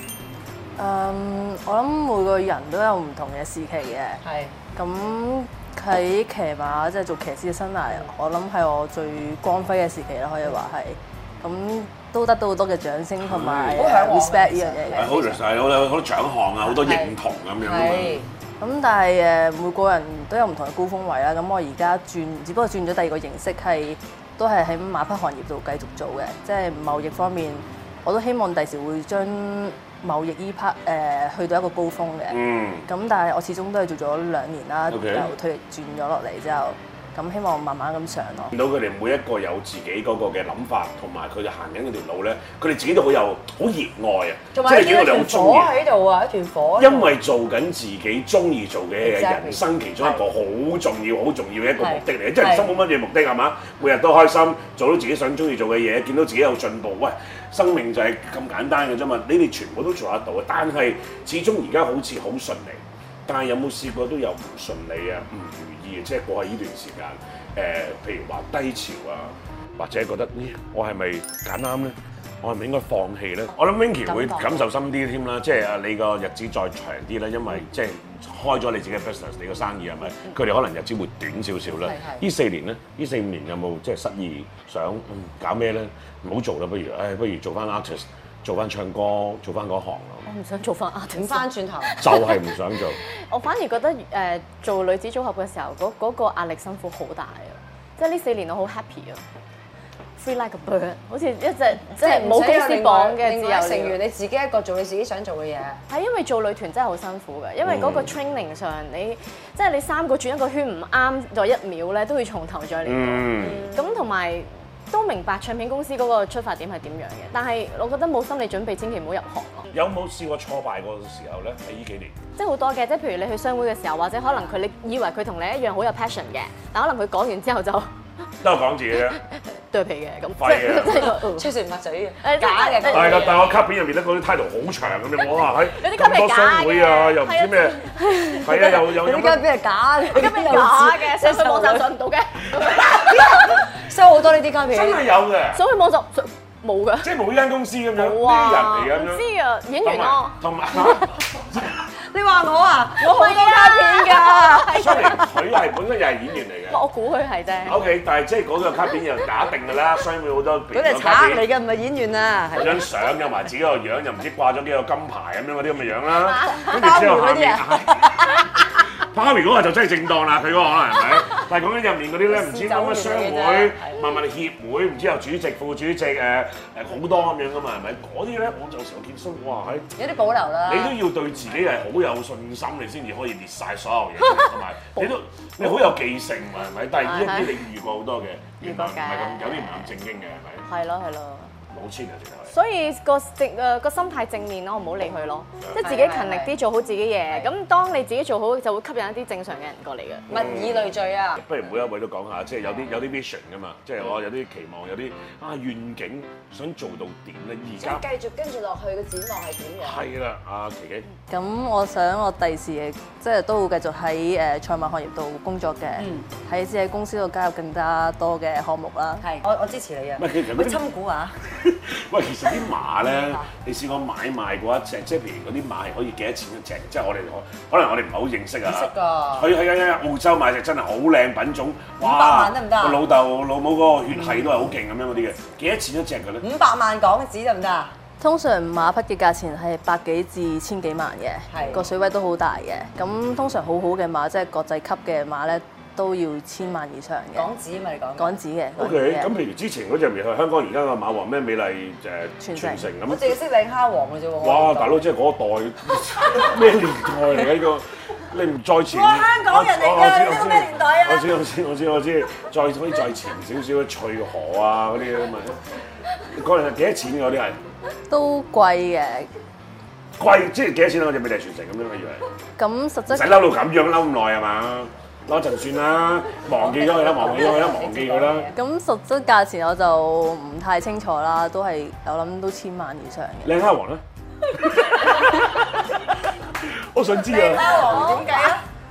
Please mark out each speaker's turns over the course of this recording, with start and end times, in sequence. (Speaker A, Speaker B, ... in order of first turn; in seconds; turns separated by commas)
Speaker A: 0.8-4.2, Speaker B: 4.2-4.5, Speaker A: 4.7-15.4, Speaker C: 13.2-14.0, Speaker B: 13.7-15.2, Speaker C: 14.9-18.2, Speaker B: 16.6-18.3, Speaker A: 18.6-38.5, Speaker C: 32.3-32.9, Speaker C: 34.9-35.3, Speaker C: 38.5-45.7, Speaker B: 44.5-47.1, Speaker C: 46.8-90.3, Speaker B: 49.0-50.2, Speaker B: 51.8-52.7, Speaker B: 74.1-74.6, Speaker B: 81.7-82.2, Speaker D: 90.2-92.4, Speaker B: 91.1-92.0, Speaker C: 92.0-93.0, Speaker D: 93.3-99.2, Speaker D: 100.2-104.0, Speaker B: 101.9-105.8, Speaker D: 105.9-119.7, Speaker C: 107.6-108.1, Speaker C: 112.8-113.6, Speaker B: 113.4-113.9, Speaker C: 119.7-122.1, Speaker D: 122.4-127.9, Speaker C: 128.4-129.2, Speaker D: 129.0-131.5, Speaker C: 130.4-131.2, Speaker B: 131.1-133.5, Speaker D: 132.2-133.4, Speaker C: 132.9-139.5, Speaker D: 135.8-138.8, Speaker B: 138.4-141.9, Speaker D: 140.1-143.6, Speaker B: 142.8-145.0, Speaker C: 144.7-145.6, Speaker D: 145.5-147.1, Speaker C: 147.0-149.2, Speaker D: 147.9-150.3, Speaker C: 149.8-151.8, Speaker B: 152.1-155.1, Speaker D: 153.0-155.3, Speaker C: 154.7-156.8, Speaker D: 156.7-157.8, Speaker C: 157.7-161.4, Speaker B: 160.7-162.8, Speaker C: 162.5-168.2, Speaker B: 166.5-168.4, Speaker C: 169.0-179.9, Speaker B: 172.3-174.0, Speaker B: 180.0-181.0, Speaker C: 180.6-190.6, Speaker D: 184.9-185.7, Speaker D: 187.0-187.6, Speaker D: 188.6-189.9, Speaker D: 190.7-191.5, Speaker C: 191.7-192.6, Speaker D: 192.5-200.3, Speaker B: 195.8-196.6, Speaker B: 200.3-201.5, Speaker C: 200.3-208.0, Speaker B: 207.8-210.0, Speaker C: 209.8-211.1, Speaker A: 211.3-219.3, Speaker B: 216.0-216.3, Speaker B: 219.2-221.4, Speaker C: 220.2-220.8, Speaker C: 221.5-236.4, Speaker B: 223.1-223.5, Speaker B: 228.6-229.5, Speaker B: 232.0-233.0, Speaker B: 234.1-234.5, Speaker B: 236.4-237.9, Speaker A: 238.2-247.5, Speaker B: 241.5-241.9, Speaker B: 247.3-248.4, Speaker A: 248.2-249.3, Speaker C: 248.8-253.4, Speaker A: 252.4-252.9, Speaker B: 253.1-255.1, Speaker C: 254.4-265.6, Speaker B: 258.9-261.4, Speaker C: 266.2-267.6, Speaker A: 268.1-269.3, Speaker C: 270.2-272.2, Speaker A: 272.6-273.6, Speaker C: 273.1-278.5, Speaker B: 276.5-278.6, Speaker A: 278.5-283.6, Speaker C: 283.4-284.0, Speaker C: 285.0-286.0, Speaker C: 286.6-288.2, Speaker B: 287.3-288.6, Speaker D: 287.5-288.5